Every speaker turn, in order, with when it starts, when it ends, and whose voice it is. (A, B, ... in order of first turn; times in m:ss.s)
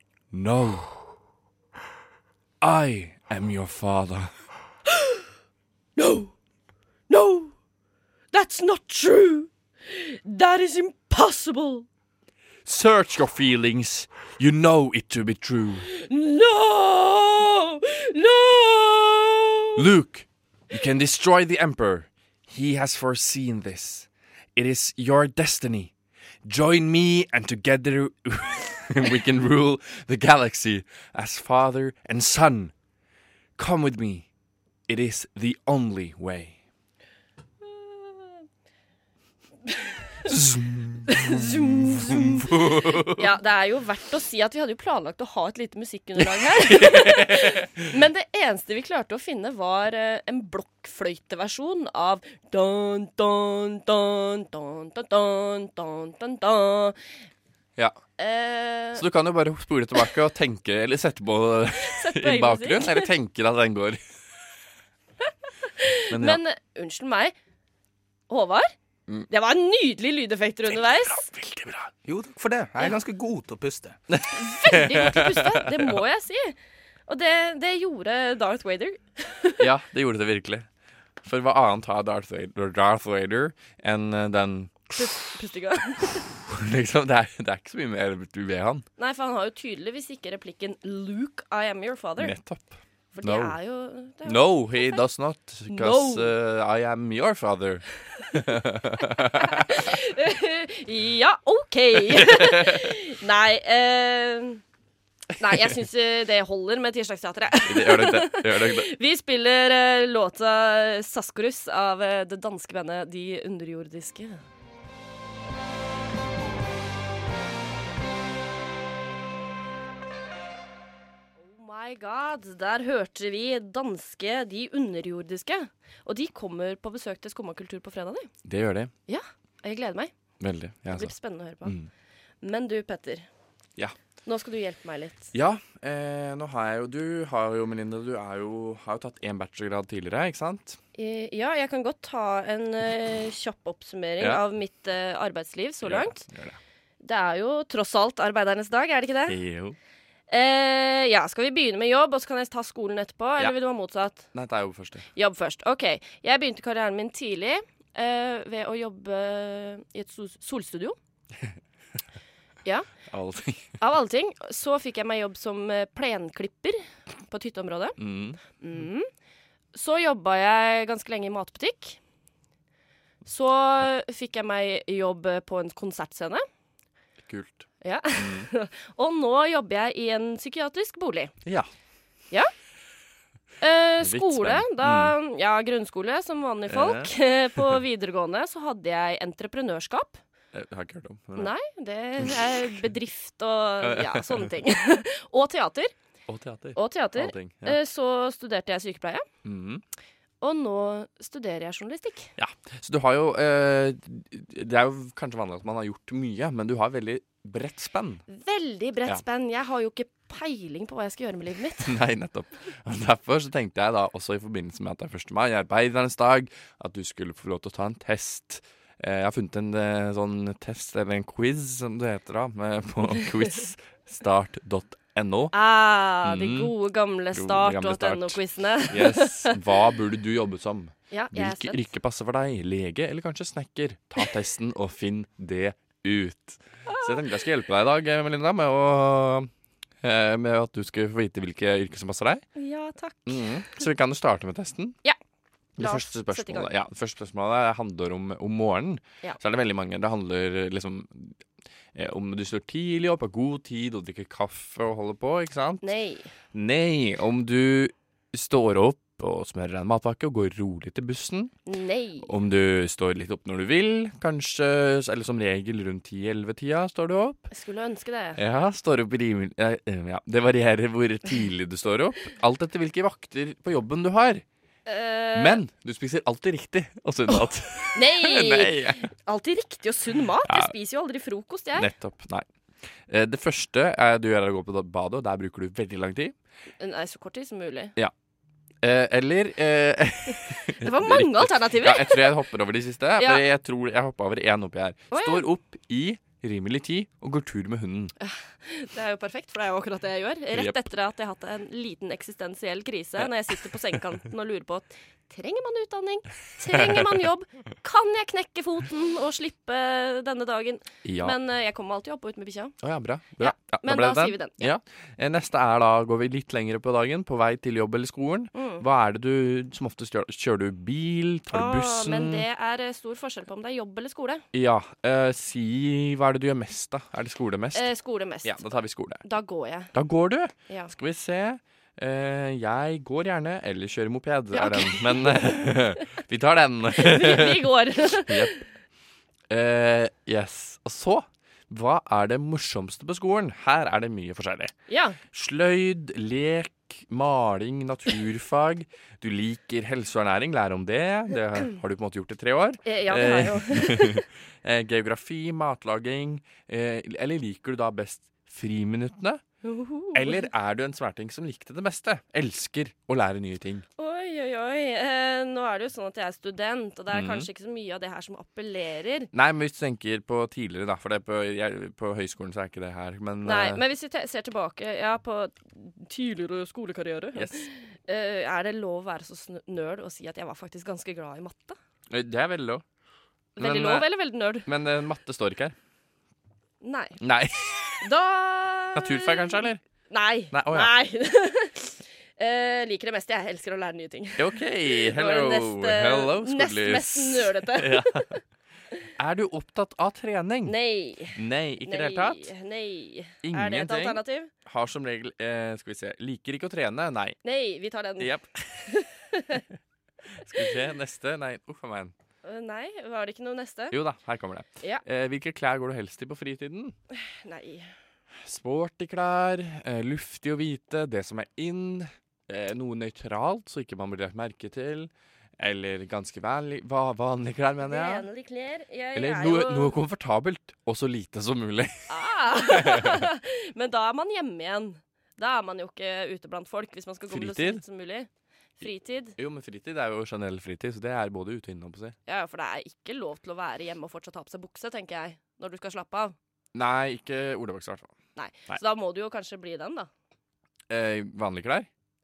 0:00.3-0:01.0 A
0:02.6-0:04.3 A
0:04.9-0:05.2 B
0:06.0-0:06.3 B
0:07.1-0:07.5 B
0:08.3-0:11.9 B
0:12.6-0:15.9 A
0:15.9-0:19.8 B
0:19.8-0:25.9 A
0:26.4-0:32.7 A
0:33.6-0:34.3 A
0:34.9-0:36.6 A
0:37.6-0:38.4 B
0:39.6-0:40.3 B
0:40.2-0:43.3 A
0:41.1-0:57.0 B
0:46.2-0:47.9 A
0:58.2-0:59.1 B
0:58.9-1:04.0 A
1:01.8-1:03.1 B
1:05.6-1:07.4 B
1:06.1-1:06.4 A
1:08.3-1:08.7 B
1:09.3-1:11.3 B
1:10.7-1:11.9 A
1:12.0-1:14.0 C
1:14.1-1:16.0 A
1:14.3-1:19.6 B
1:19.6-1:20.7 A
1:21.2-1:25.0 A
1:24.9-1:26.2 B
1:26.4-1:28.8 A
1:29.0-1:32.4 B
1:32.2-1:33.6 A
1:33.1-1:35.0 B
1:34.2-1:39.8 A
1:35.7-1:36.3 B
1:39.3-1:44.6 B
1:42.1-1:42.9 A
1:45.4-1:54.4 B
1:47.6-1:48.9 A
2:01.4-2:08.3 B
2:08.4-2:08.9 A
2:09.1-2:10.1 B
2:10.4-2:11.1 A
2:10.9-2:11.8 B
2:11.6-2:11.9 A
2:12.4-2:13.3 B
2:14.2-2:15.3 B
2:15.3-2:20.8 A
2:21.0-2:26.2 B
2:25.8-2:26.6 A
2:27.0-2:29.4 B
2:29.3-2:29.8 A
2:30.3-2:34.3 B
2:34.3-2:35.1 A
2:35.2-2:41.0 B
2:43.1-2:43.8 A
2:43.8-2:48.0 B
2:48.0-2:48.4 A
2:48.6-2:49.1 B
2:49.7-2:52.0 B
2:53.2-2:56.4 B
2:57.2-2:58.5 A
2:57.8-3:01.3 B
3:03.6-3:10.2 B
3:04.0-3:05.1 A
3:06.7-3:07.8 A
3:10.5-3:11.5 A
3:11.4-3:15.9 B
3:13.8-3:14.5 A
3:16.3-3:17.8 A
3:16.7-3:19.2 B
3:19.4-3:19.8 A
3:20.4-3:22.3 B
3:22.4-3:28.2 A
3:28.3-3:31.9 B
3:31.8-3:45.5 A
3:45.5-3:49.6 B
3:46.2-3:46.7 A
3:47.3-3:59.5 A
3:51.1-3:51.9 B
3:56.9-3:57.2 B
4:00.0-4:02.4 A
4:02.6-4:03.5 B
4:03.2-4:05.0 A
4:05.8-4:11.4 A
4:05.8-4:06.7 B
4:11.9-4:15.9 A
4:15.8-4:16.3 B
4:16.5-4:21.5 A
4:21.6-4:22.3 B
4:22.2-4:27.5 A
4:27.5-4:28.4 B
4:28.4-4:34.4 A
4:34.9-4:35.6 B
4:35.4-4:39.1 A
4:37.3-4:41.9 B
4:40.4-4:40.7 A
4:41.8-4:42.5 A
4:43.1-4:46.4 A
4:46.8-4:47.9 B
4:48.8-4:58.1 A
4:50.7-4:52.3 B
4:53.2-4:53.4 B
4:55.1-4:55.4 B
4:58.2-5:12.7 B
5:00.5-5:00.9 A
5:03.2-5:03.8 A
5:06.7-5:07.2 A
5:11.0-5:11.4 A
5:12.8-5:22.4 A
5:13.4-5:14.7 B
5:18.5-5:18.8 B
5:21.5-5:24.4 B
5:24.5-5:27.9 A
5:27.7-5:29.9 B
5:28.4-5:29.2 A
5:29.9-5:38.6 A
5:30.7-5:30.9 B
5:34.5-5:35.7 B
5:36.9-5:38.6 B
5:39.5-5:44.7 A
5:44.9-5:45.2 B
5:45.3-5:59.4 A
5:52.8-5:54.2 B
5:59.6-6:00.5 B
6:00.1-6:03.8 A
6:04.0-6:09.3 B
6:07.1-6:07.5 A
6:09.3-6:13.8 A
6:13.4-6:21.8 B
6:17.4-6:17.7 A
6:22.1-6:22.8 A
6:23.6-6:24.7 B
6:23.6-6:24.1 A
6:24.6-6:25.8 A
6:26.8-6:27.2 B
6:27.2-6:28.1 A
6:28.0-6:38.4 B
6:28.9-6:29.8 A
6:30.5-6:30.9 A
6:34.4-6:38.4 A
6:39.2-6:40.7 A
6:40.6-6:44.5 B
6:41.3-6:42.5 A
6:43.4-6:47.4 A
6:47.4-6:49.6 B
6:48.2-6:48.8 A
6:50.3-6:52.1 A
6:52.4-6:54.0 B
6:53.9-6:56.9 A
6:57.1-6:57.9 B
6:58.4-7:08.3 A
7:07.8-7:10.0 B
7:09.1-7:13.3 A
7:12.1-7:18.3 B
7:17.3-7:17.8 A
7:18.8-7:19.4 B
7:18.8-7:22.1 A
7:22.3-7:26.4 B
7:26.7-7:28.1 A
7:28.4-7:30.1 B
7:30.9-7:31.9 A